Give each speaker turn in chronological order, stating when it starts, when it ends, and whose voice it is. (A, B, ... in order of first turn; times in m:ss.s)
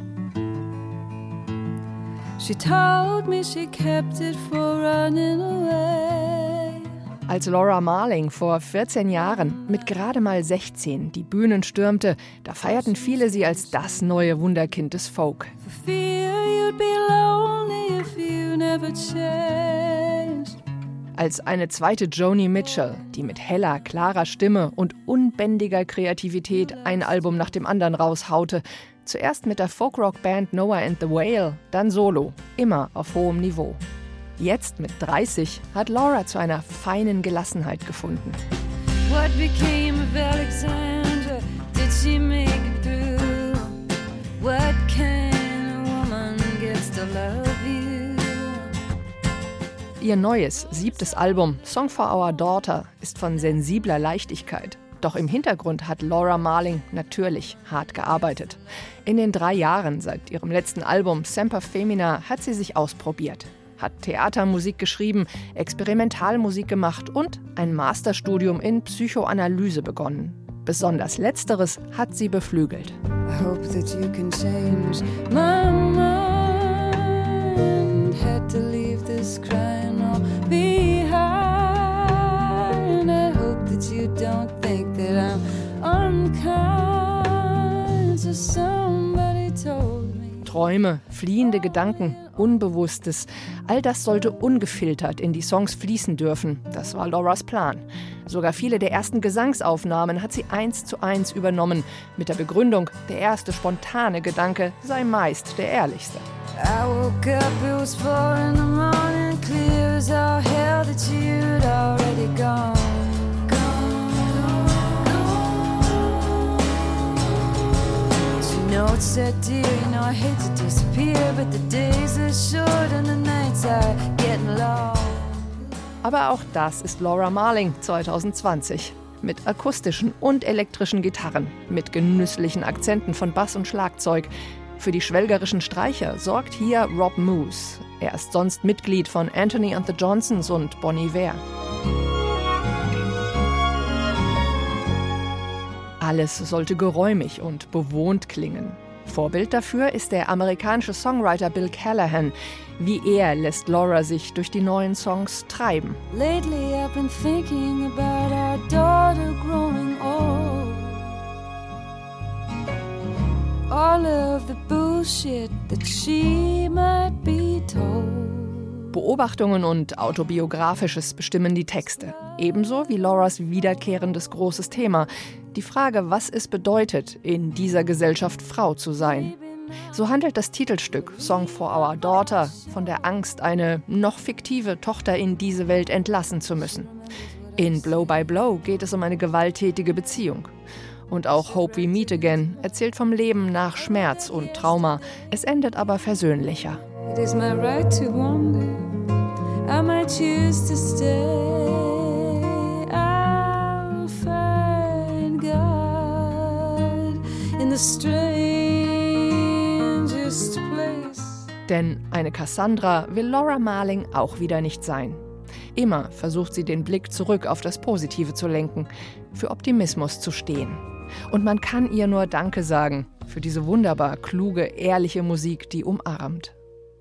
0:02.4-0:06.9 A
0:07.3-0:15.5 B
0:15.6-0:20.5 A
0:21.2-0:33.8 B
0:34.4-0:38.4 B
0:39.0-0:43.8 A
0:44.4-0:48.7 A
0:50.0-1:13.0 B
1:13.3-1:30.5 A
1:30.4-1:46.2 B
1:46.5-1:57.0 A
1:58.4-2:05.4 A
2:06.0-2:21.4 B
2:26.0-2:36.0 B
2:36.1-2:41.1 A
2:43.7-2:48.8 A
2:48.9-2:59.4 B
2:59.9-3:06.9 B
3:07.6-3:10.5 B
3:11.1-3:16.8 B
3:17.0-3:19.1 A
3:19.6-3:31.5 A
3:31.7-3:35.2 B
3:35.7-3:46.5 B